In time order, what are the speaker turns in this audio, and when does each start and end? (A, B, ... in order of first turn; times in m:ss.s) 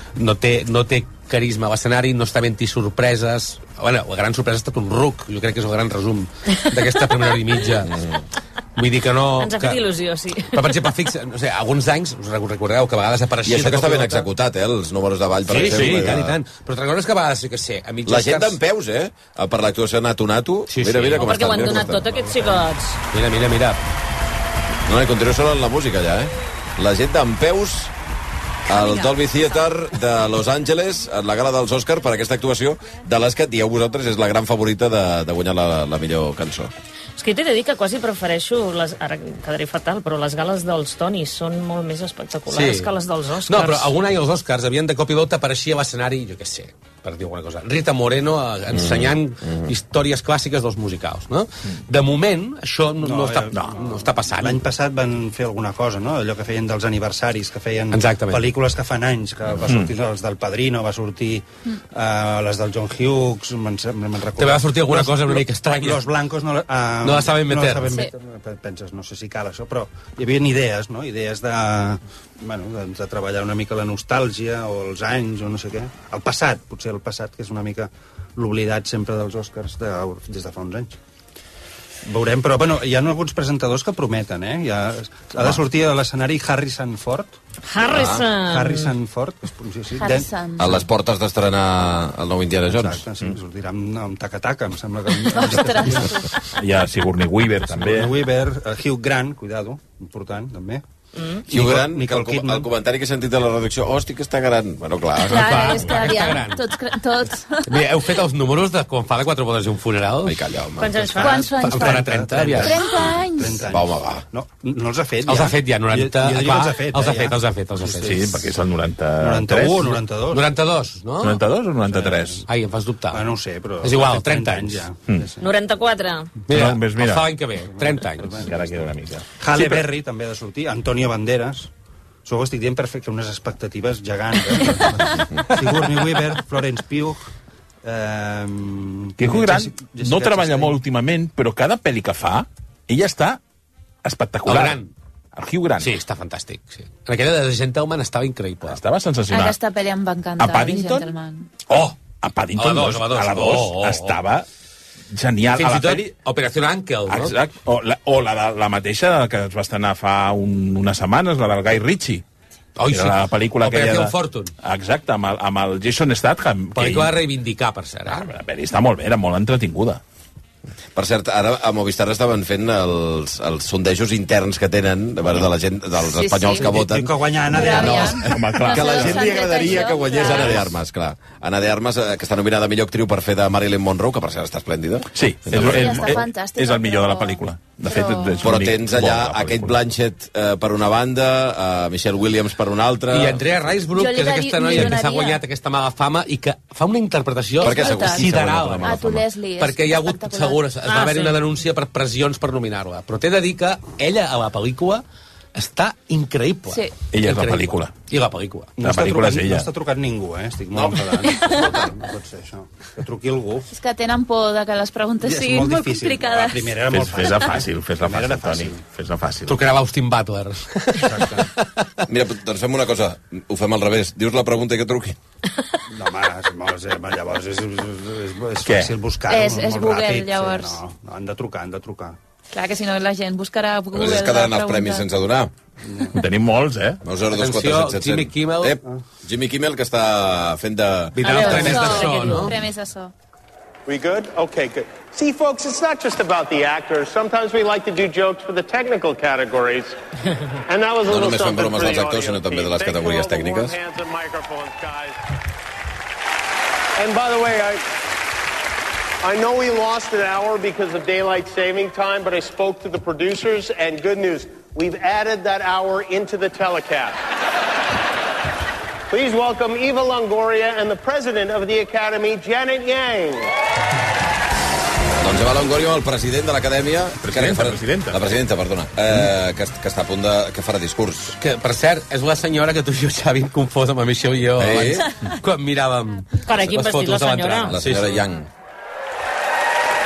0:00.2-0:08.0 A
0:07.8-0:08.2 B
0:08.8-0:09.8 A
0:09.4-0:10.8 C
0:10.5-0:14.3 A
0:13.4-0:16.4 B
0:15.5-0:18.6 A
0:18.0-0:22.1 B
0:20.7-0:22.2 A
0:21.2-0:23.0 C
0:23.1-0:23.8 A
0:24.8-0:27.9 B
0:28.7-0:36.7 B
0:37.2-0:43.9 C
0:42.5-0:42.9 A
0:43.5-0:54.6 A
0:48.7-0:49.7 B
0:53.0-1:20.9 D
0:57.9-0:58.4 A
0:59.6-0:59.9 E
1:04.4-1:06.0 A
1:07.0-1:08.0 A
1:22.0-1:27.3 D
1:27.7-1:28.9 C
1:27.8-1:28.3 B
1:28.4-1:30.3 D
1:30.0-1:30.8 F
1:30.6-1:33.0 B
1:32.7-1:36.3 D
1:35.2-1:36.4 F
1:36.6-1:38.2 E
1:37.7-1:40.8 D
1:41.4-1:42.7 D
1:41.5-1:45.9 B
1:45.2-1:47.9 F
1:45.3-1:46.6 A
1:47.6-1:50.4 A
1:50.2-1:51.1 B
1:50.8-1:51.5 C
1:51.2-1:53.7 F
1:51.2-1:58.2 D
1:51.5-1:52.8 A
1:53.7-1:54.2 B
1:55.2-1:58.4 A
1:57.9-2:00.0 E
1:59.2-2:00.5 D
2:00.3-2:01.4 A
2:01.2-2:02.4 E
2:01.8-2:02.4 D
2:02.5-2:03.2 A
2:03.1-2:05.5 D
2:03.8-2:04.8 A
2:05.4-2:06.3 C
2:06.5-2:08.4 A
2:06.5-2:07.4 E
2:07.8-2:11.7 D
2:08.4-2:09.8 E
2:12.2-2:17.3 D
2:17.8-2:20.8 D
2:19.2-2:23.4 E
2:24.0-2:24.8 E
2:24.4-2:24.9 A
2:25.3-2:26.0 E
2:25.8-2:28.8 A
2:28.7-2:29.6 E
2:29.3-2:31.5 F
2:30.4-2:31.1 E
2:31.7-2:34.4 E
2:32.6-2:34.2 A
2:35.1-2:36.1 E
2:35.5-2:37.4 A
2:37.1-2:42.2 E
2:42.8-2:44.5 A
2:42.9-2:47.1 E
2:46.7-2:48.3 A
2:48.1-2:50.0 E
2:50.9-3:06.2 B
2:56.0-2:56.8 F
2:56.6-2:58.2 D
2:57.5-3:00.6 F
2:58.2-3:00.6 E
3:05.1-3:09.8 E
3:05.5-3:08.5 F
3:08.4-3:13.4 B
3:13.1-3:19.0 A
3:13.9-3:15.4 F
3:17.6-3:18.3 F
3:17.6-3:19.3 B
3:18.8-3:20.6 F
3:19.6-3:25.0 A
3:20.8-3:21.4 C
3:25.5-3:28.7 A
3:26.7-3:27.0 F
3:27.1-3:27.9 E
3:28.8-3:33.7 D
3:28.8-3:29.7 E
3:31.3-3:31.6 F
3:33.7-3:36.8 F
3:35.2-3:38.8 D
3:36.9-3:39.6 E
3:39.4-3:41.9 A
3:41.0-3:41.5 D
3:42.1-3:45.2 B
3:45.9-3:52.2 D
3:48.6-3:48.9 E
3:49.3-3:50.8 F
3:52.5-3:55.1 F
3:53.9-3:55.5 B
3:55.8-3:56.2 D
3:56.1-3:57.0 E
3:57.0-4:01.7 B
3:57.3-3:58.8 A
4:01.1-4:02.6 A
4:01.2-4:03.1 F
4:01.2-4:02.5 C
4:03.9-4:10.0 G
4:10.7-4:15.2 G
4:11.0-4:13.7 B
4:17.0-4:17.8 G
4:19.2-4:27.2 G
4:29.1-4:33.5 G
4:35.2-4:41.4 B
4:37.2-4:38.2 E
4:41.4-4:48.2 A
4:44.6-4:45.1 B
4:46.4-4:47.8 C
4:47.7-4:48.5 B